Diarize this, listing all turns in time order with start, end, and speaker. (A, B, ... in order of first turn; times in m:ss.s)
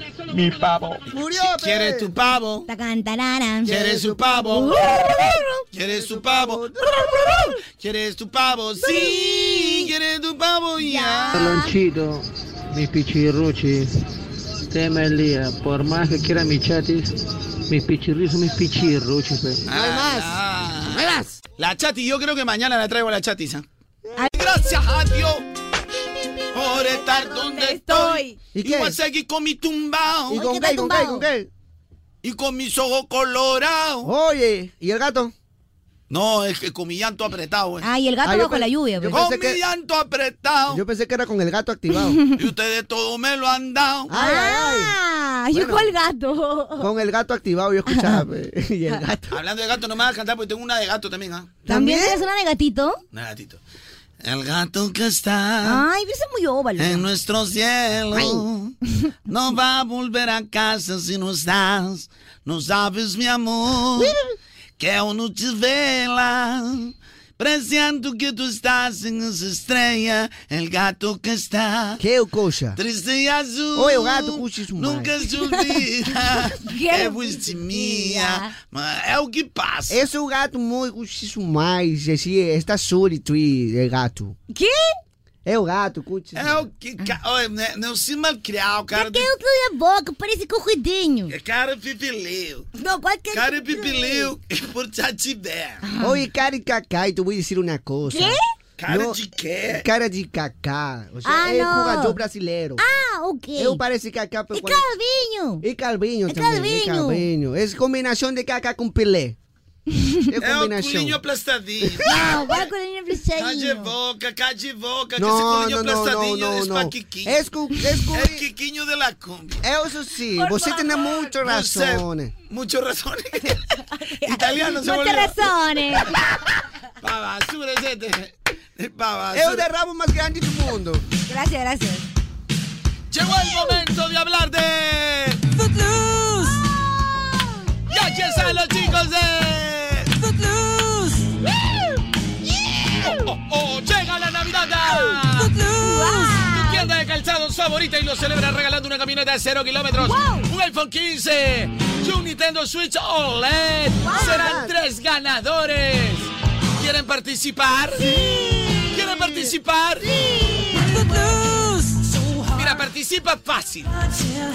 0:01.1-0:02.1 A
0:01.3-0:02.7 B
0:02.7-0:03.7 C
0:03.6-0:04.9 B
0:03.6-0:07.5 A
0:04.6-0:05.4 C
0:05.7-0:06.6 B
0:07.7-0:11.5 B
0:08.9-0:09.8 C
0:10.8-0:11.7 C
0:11.3-0:13.9 D
0:14.7-0:17.1 D
0:17.7-0:19.6 D
0:19.7-0:21.0 B
0:19.7-0:20.4 A
0:21.6-0:23.6 B
0:24.3-0:25.4 B
0:26.5-0:30.4 B
0:26.6-0:28.4 C
0:28.5-0:29.0 A
0:30.3-0:31.5 A
0:30.3-0:31.2 C
0:32.2-0:34.1 B
0:34.0-0:35.3 A
0:36.1-0:37.8 B
0:37.8-0:39.2 C
0:38.2-0:39.6 A
0:39.1-0:40.8 B
0:40.7-0:42.2 A
0:42.4-0:44.1 B
0:44.1-0:44.9 A
0:44.1-0:46.9 C
0:45.5-0:45.9 A
0:46.8-0:49.4 A
0:47.9-0:48.2 C
0:49.3-0:51.6 B
0:51.6-0:52.2 A
0:51.7-0:53.0 C
0:53.1-0:53.6 B
0:54.2-0:55.8 B
0:55.6-0:57.0 C
0:56.8-0:58.7 B
0:58.1-0:58.4 A
0:59.3-1:04.1 B
1:04.8-1:12.0 B
1:12.0-1:12.8 A
1:12.8-1:20.0 B
1:13.7-1:15.1 A
1:16.5-1:18.5 C
1:19.9-1:24.4 A
1:24.5-1:24.8 C
1:25.4-1:26.6 A
1:26.3-1:29.3 B
1:28.9-1:31.3 C
1:31.3-1:32.7 B
1:32.8-1:34.3 C
1:33.3-1:35.8 B
1:35.8-1:36.2 C
1:36.0-1:39.2 A
1:38.1-1:38.4 C
1:38.8-1:39.8 B
1:39.7-1:42.8 A
1:41.2-1:42.2 C
1:42.8-1:43.8 C
1:43.6-1:44.8 A
1:44.5-1:45.6 C
1:45.6-1:49.4 A
1:46.3-1:47.2 C
1:50.3-1:51.2 A
1:50.4-1:52.7 B
1:52.0-1:53.9 C
1:53.4-1:57.4 B
1:55.2-1:58.4 A
1:58.1-1:59.6 B
1:59.6-2:02.3 A
2:00.4-2:01.1 C
2:01.4-2:03.6 B
2:03.9-2:06.1 C
2:04.2-2:05.4 B
2:07.0-2:09.7 B
2:09.3-2:11.0 A
2:11.3-2:12.1 C
2:13.1-2:15.4 B
2:16.0-2:16.9 C
2:17.9-2:20.1 B
2:20.7-2:21.1 C
2:23.0-2:25.6 B
2:25.6-2:26.9 C
2:26.3-2:38.1 B
2:30.0-2:30.4 C
2:34.0-2:34.5 C
2:34.1-2:34.7 A
2:38.0-2:39.5 A
2:38.9-2:40.1 B
2:40.0-2:41.7 C
2:42.5-2:43.9 B